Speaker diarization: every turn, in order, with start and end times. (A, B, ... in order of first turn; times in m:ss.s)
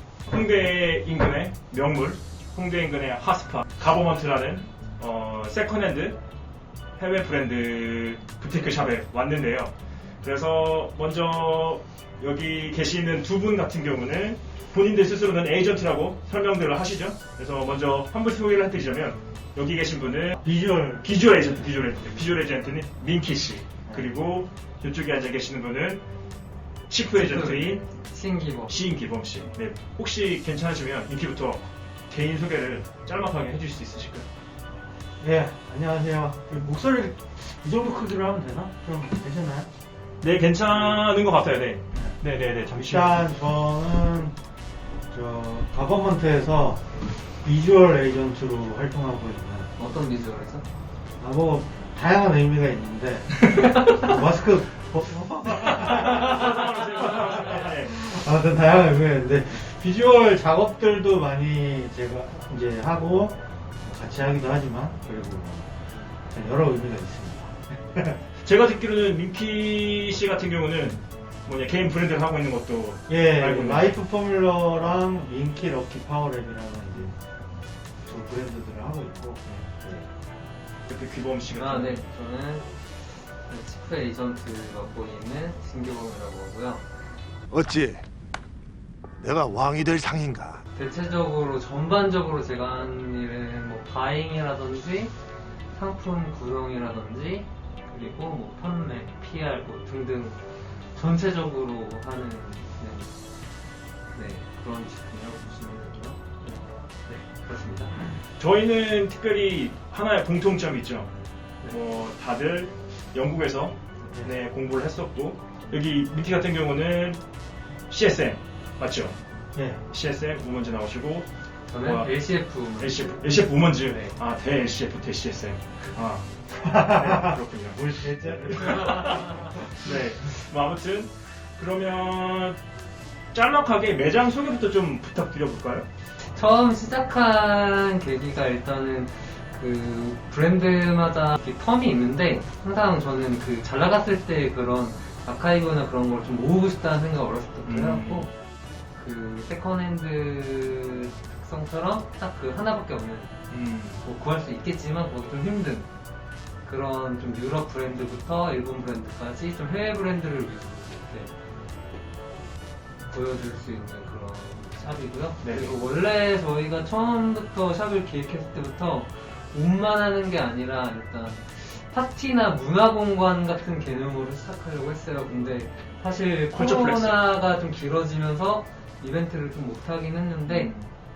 0:00.3-0:06.2 A
0:07.0-0:20.4 A
0:20.4-0:21.1 B
0:21.0-0:26.0 A
0:26.9-0:27.8 A
0:27.1-0:28.7 C
0:28.7-0:34.3 A
0:35.2-0:39.7 B
0:40.2-0:43.2 A
0:42.7-0:44.4 B
0:45.1-0:46.8 B
0:47.4-0:49.7 B
0:49.8-0:50.6 C
0:51.2-1:05.8 B
0:55.6-0:57.9 A
1:06.3-1:08.2 B
1:08.4-1:14.0 A
1:13.1-1:17.2 B
1:18.0-1:20.1 B
1:20.9-1:22.0 A
1:21.5-1:22.7 C
1:23.4-1:26.8 C
1:27.5-1:28.0 D
1:29.2-1:30.6 D
1:30.7-1:35.1 C
1:35.7-1:40.4 C
1:40.9-1:43.1 C
1:44.1-1:48.0 C
1:48.4-1:51.1 A
1:51.7-1:57.2 A
1:57.9-1:59.2 A
1:59.5-1:59.8 B
1:59.9-2:01.3 A
2:01.7-2:03.2 C
2:01.8-2:02.1 A
2:02.8-2:12.6 A
2:03.9-2:04.2 C
2:06.6-2:09.9 B
2:13.3-2:15.8 A
2:16.2-2:28.3 C
2:27.6-2:28.3 A
2:29.0-2:33.4 C
2:33.5-2:34.0 A
2:34.0-2:35.9 C
2:36.6-2:41.3 C
2:43.1-3:00.7 C
2:45.4-2:45.7 A
2:56.5-2:57.2 A
3:00.4-3:00.9 A